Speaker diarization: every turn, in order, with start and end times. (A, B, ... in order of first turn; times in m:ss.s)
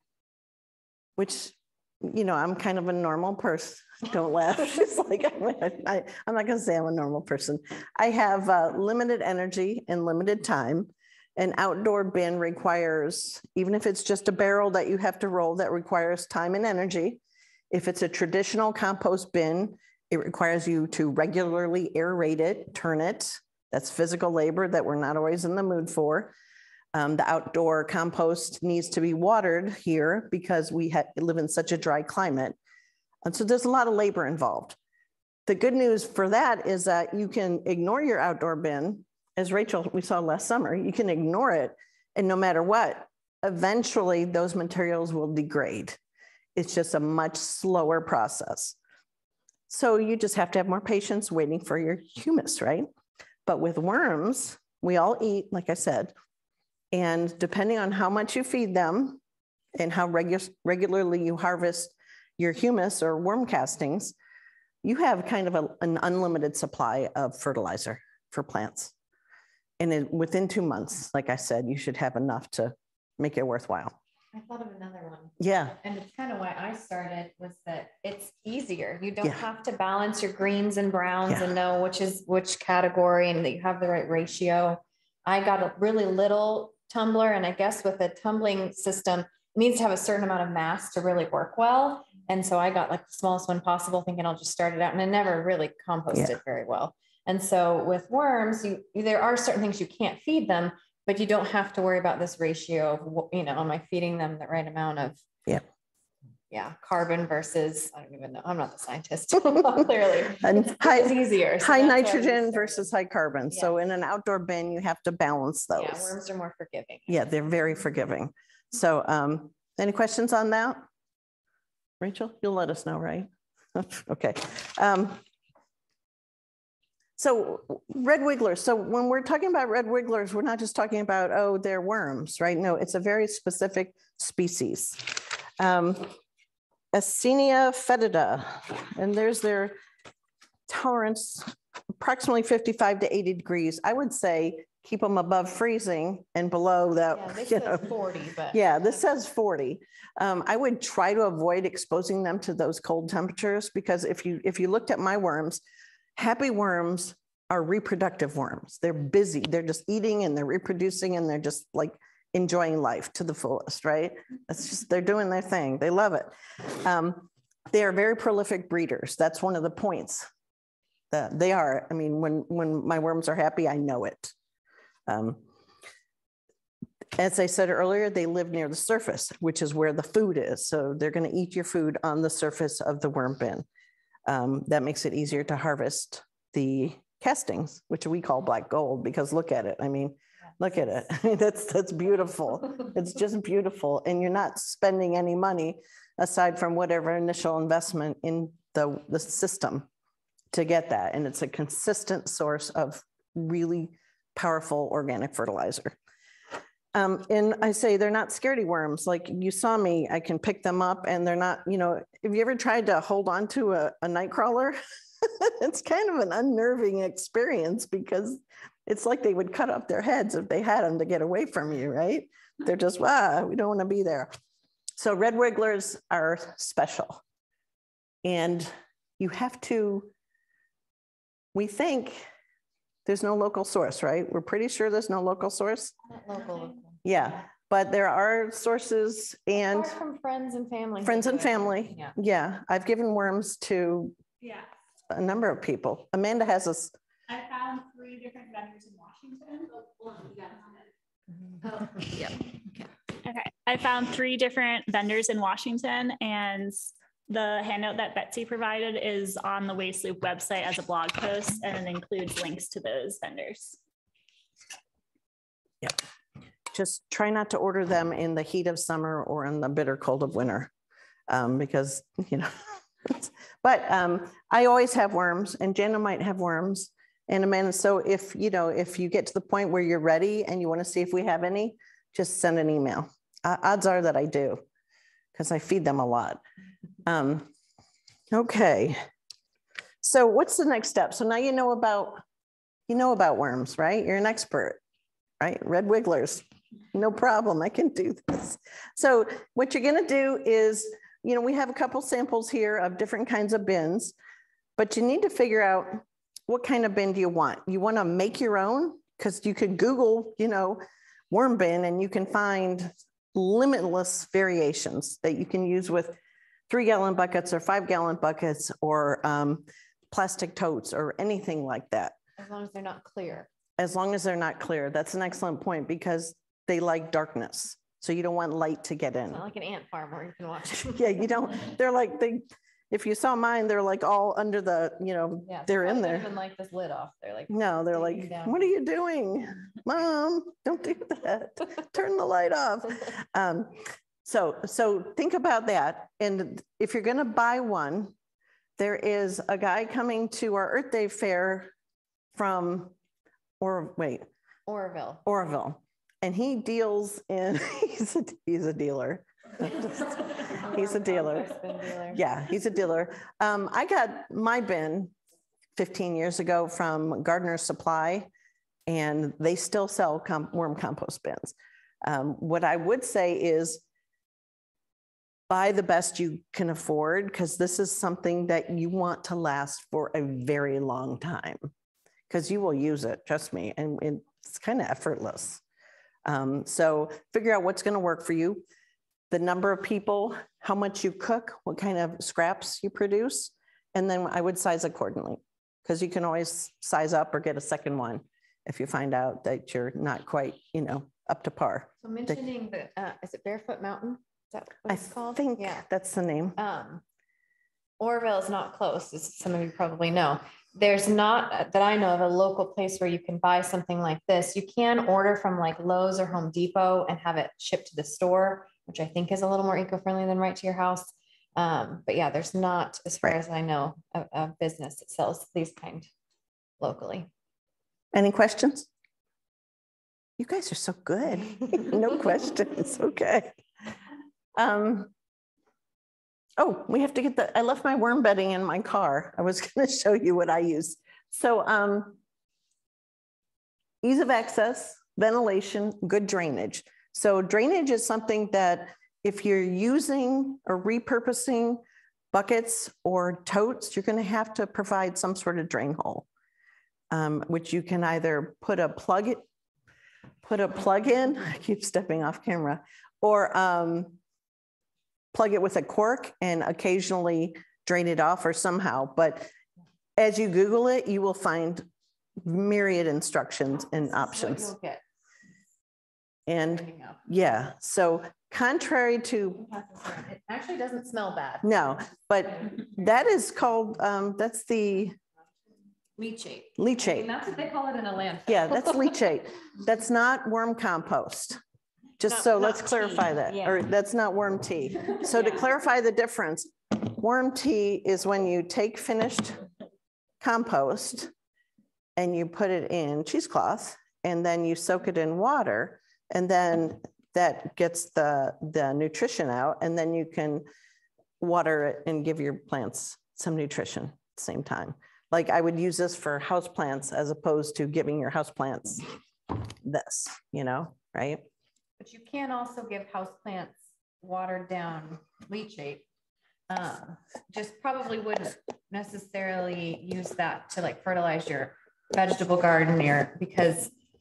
0:01.2-0:26.3 A
0:26.9-0:32.6 A
0:33.2-0:34.8 A
0:35.5-0:46.0 A
0:46.6-0:48.8 A
0:49.7-0:52.9 A
0:53.4-0:56.1 A
0:56.9-0:59.2 A
0:59.8-1:04.1 A
1:04.8-1:08.9 A
1:09.8-1:14.0 A
1:14.3-1:45.2 B
1:15.4-1:15.8 A
1:46.5-1:52.9 B
1:50.4-1:56.2 A
1:53.5-1:53.8 B
1:55.7-1:57.2 B
1:57.1-2:00.8 A
2:02.0-2:05.2 A
2:07.2-2:16.1 A
2:16.9-2:19.8 A
2:20.7-2:27.9 A
2:27.1-2:28.6 B
2:28.5-2:35.6 A
2:36.2-2:50.3 A
2:51.1-2:54.3 A
2:55.1-2:55.4 A
2:57.2-3:03.6 A
3:04.3-3:19.9 A
3:20.5-3:25.9 A
3:26.9-3:44.3 A
3:45.0-3:47.2 A
3:48.2-3:50.1 A
3:51.5-3:52.2 A
3:53.0-3:55.9 A
3:56.1-3:57.0 B
3:57.0-3:59.9 A
3:59.5-4:02.1 B
4:01.0-4:04.2 A
4:05.1-4:06.9 A
4:07.3-4:10.8 C
4:13.2-4:23.8 C
4:26.7-4:30.7 A
4:31.3-4:44.6 A
4:45.3-4:46.4 A
4:47.0-4:47.5 A
4:48.3-4:49.0 A
4:50.0-4:52.2 A
4:52.9-4:54.8 A
4:55.4-5:04.1 A
5:04.8-5:16.2 A
5:16.7-5:22.2 A
5:22.4-5:23.5 B
5:23.8-5:29.4 A
5:29.3-5:31.1 B
5:30.9-5:36.3 A
5:35.5-5:38.7 B
5:37.5-5:48.1 A
5:48.8-5:51.7 A
5:52.3-5:52.9 A
5:53.6-5:54.3 A
5:54.7-5:55.2 B
5:55.2-6:01.5 A
6:00.5-6:02.2 B
6:02.1-6:05.1 A
6:05.8-6:08.3 A
6:08.9-6:13.8 A
6:15.5-6:21.7 A
6:22.3-6:25.6 A
6:26.2-6:28.6 A
6:29.3-6:42.4 A
6:42.0-6:45.8 B
6:44.9-6:46.6 A
6:46.6-6:47.0 B
6:48.0-7:06.1 B
7:06.8-7:07.3 B
7:08.1-7:08.9 A
7:10.4-7:13.5 A
7:14.6-7:15.1 A
7:16.6-7:22.2 A
7:24.0-7:36.2 A
7:37.1-7:39.4 A
7:40.4-7:44.2 A
7:45.3-7:49.5 A
7:50.2-7:54.7 A
7:54.0-7:55.0 B
7:56.5-7:59.7 A
7:56.6-7:57.2 B
7:59.6-8:01.7 B
8:01.6-8:05.2 A
8:06.2-8:09.2 B
8:06.8-8:07.3 A
8:08.5-8:11.6 A
8:12.2-8:19.6 A
8:12.2-8:13.8 B
8:15.2-8:15.7 B
8:20.4-8:21.3 A
8:22.2-8:30.6 A
8:31.4-8:41.5 A
8:42.0-8:46.0 B
8:46.7-8:53.9 B